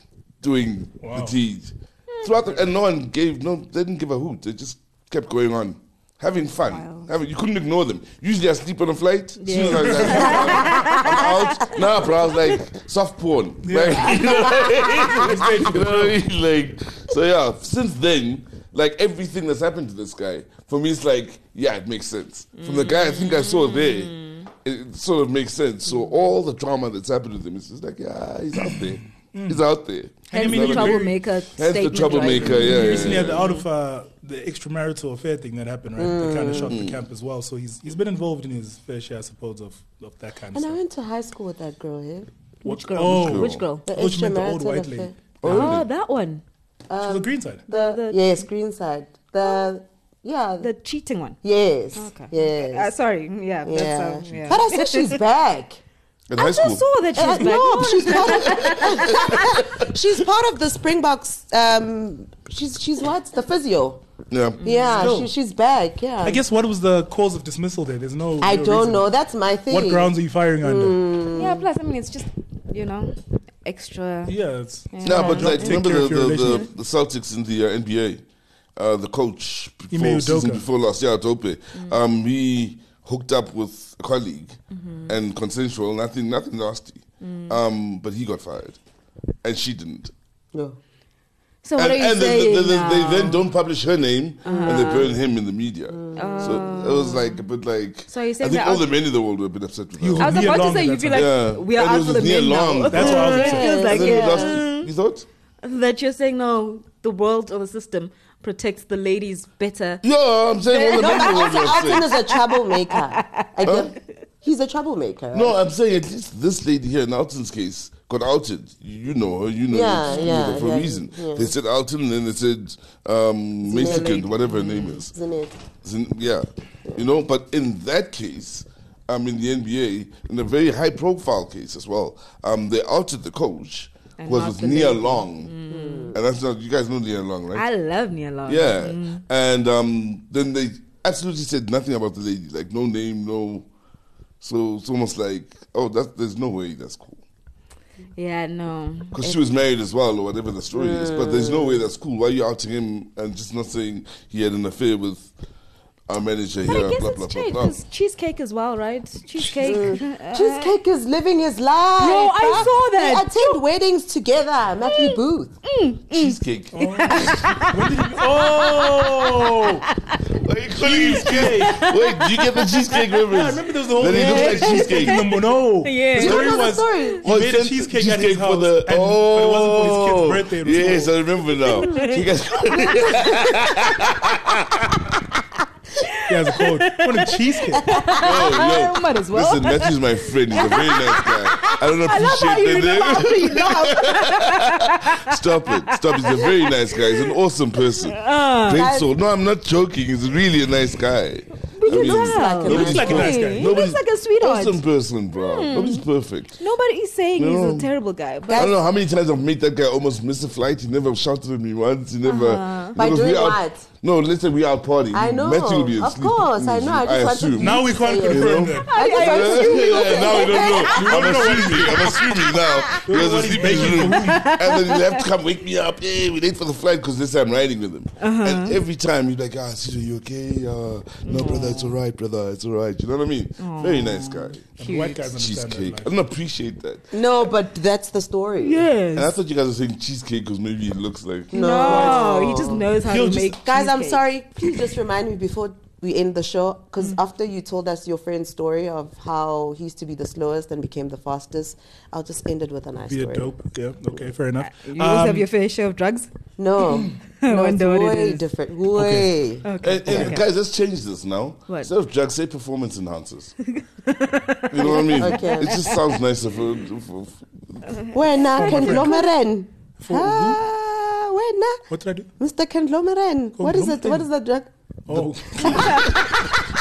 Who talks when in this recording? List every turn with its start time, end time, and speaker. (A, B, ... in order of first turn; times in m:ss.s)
0:00.4-0:33.4 A
0:01.0-0:01.4 B
0:06.7-0:07.1 C
0:09.4-0:12.6 C
0:09.5-0:10.7 B
0:13.6-0:16.2 B
0:22.5-0:24.5 C
0:29.3-0:29.6 B
0:30.3-0:31.2 B
0:30.3-0:33.6 C
0:32.4-0:40.8 B
0:36.0-0:36.8 D
0:36.6-0:37.0 A
0:40.5-0:42.3 D
0:42.6-0:43.8 C
0:42.6-0:45.8 B
0:43.0-0:43.6 A
0:43.8-0:45.7 D
0:45.4-0:45.9 A
0:45.5-0:46.4 C
0:46.9-0:50.7 D
0:47.0-0:47.6 B
0:47.7-0:48.3 C
0:50.6-0:51.4 C
0:51.4-0:52.9 D
0:51.9-0:55.2 C
0:53.6-0:55.8 D
0:56.3-0:56.8 A
0:56.4-0:59.4 C
0:57.1-1:04.0 D
0:58.1-0:59.7 A
1:04.3-1:04.7 A
1:04.6-1:06.4 D
1:04.6-1:05.1 C
1:05.0-1:05.3 B
1:06.2-1:09.1 B
1:08.4-1:11.6 D
1:09.7-1:11.0 B
1:11.3-1:14.3 C
1:14.3-1:16.6 B
1:14.9-1:15.8 C
1:15.0-1:18.2 A
1:18.8-1:28.8 A
1:19.9-1:20.6 B
1:24.7-1:25.2 C
1:27.2-1:27.6 C
1:29.4-1:30.1 A
1:31.6-1:33.5 C
1:31.8-1:45.3 A
1:34.4-1:35.2 C
1:34.5-1:35.0 D
1:35.9-1:36.6 D
1:36.1-1:37.4 C
1:38.1-1:38.9 C
1:40.0-1:41.3 B
1:40.2-1:44.9 C
1:42.9-1:43.8 B
1:43.2-1:44.6 D
1:45.6-1:50.0 C
1:50.0-1:52.1 A
1:50.7-1:53.8 C
1:50.9-1:55.6 D
1:53.6-1:53.9 A
1:55.3-2:05.1 A
1:59.7-2:01.5 D
2:00.1-2:00.6 C
2:03.6-2:04.4 D
2:03.8-2:05.0 C
2:05.1-2:05.6 D
2:05.8-2:15.5 A
2:14.2-2:16.2 C
2:15.7-2:16.2 D
2:16.1-2:17.6 A
2:17.5-2:19.2 C
2:18.4-2:23.7 A
2:24.4-2:27.2 A
2:28.2-2:29.4 C
2:29.1-2:35.3 A
2:30.7-2:31.8 D
2:36.1-2:37.8 A
2:36.6-2:40.7 C
2:39.6-2:45.5 D
2:42.0-2:43.6 C
2:44.8-2:50.4 C
2:46.1-2:47.4 A
2:46.7-2:49.8 B
2:50.3-2:55.2 A
2:50.8-2:51.9 B
2:51.3-2:53.2 C
2:53.2-3:01.1 B
2:54.0-2:57.1 C
2:56.1-2:57.2 D
2:57.2-3:05.2 A
3:01.7-3:02.0 D
3:01.7-3:02.2 C
3:02.7-3:03.8 D
3:06.0-3:15.3 C
3:06.3-3:07.9 B
3:07.9-3:08.2 D
3:08.2-3:26.6 A
3:13.3-3:13.9 D
3:15.9-3:17.3 C
3:18.1-3:18.9 C
3:18.7-3:19.1 D
3:21.7-3:24.8 C
3:21.8-3:23.4 D
3:22.6-3:23.8 B
3:25.3-3:26.0 C
3:26.6-3:28.7 C
3:27.4-3:27.9 A
3:28.5-3:28.8 D
3:28.5-3:54.7 A
3:32.2-3:33.0 C
3:33.0-3:33.8 D
3:35.1-3:40.9 D
3:37.6-3:38.9 B
3:38.8-3:45.2 C
3:40.8-3:42.2 B
3:43.0-3:44.5 B
3:48.2-3:48.8 C
3:51.2-3:51.9 C
3:53.6-3:55.2 C
3:54.8-3:56.1 B
3:55.3-3:57.5 A
3:57.1-3:58.8 D
3:58.6-3:59.3 C
3:59.1-4:01.5 A
4:01.5-4:02.9 D
4:01.5-4:04.2 C
4:01.8-4:02.4 B
4:03.0-4:03.6 B
4:03.5-4:13.5 D
4:13.1-4:15.4 B
4:14.6-4:16.3 C
4:16.6-4:20.2 D
4:17.4-4:18.5 C
4:18.9-4:19.3 B
4:19.6-4:20.4 C
4:19.8-4:23.5 A
4:20.1-4:20.4 B
4:23.7-4:26.0 C
4:24.7-4:27.8 A
4:24.8-4:25.9 D
4:28.0-4:29.2 C
4:28.1-4:31.8 D
4:28.6-4:29.2 B
4:30.0-4:30.6 B
4:31.9-4:32.3 B
4:32.4-4:34.7 D
4:33.6-4:34.3 B
4:35.1-4:36.2 B
4:35.6-4:36.3 D
4:35.7-4:36.0 C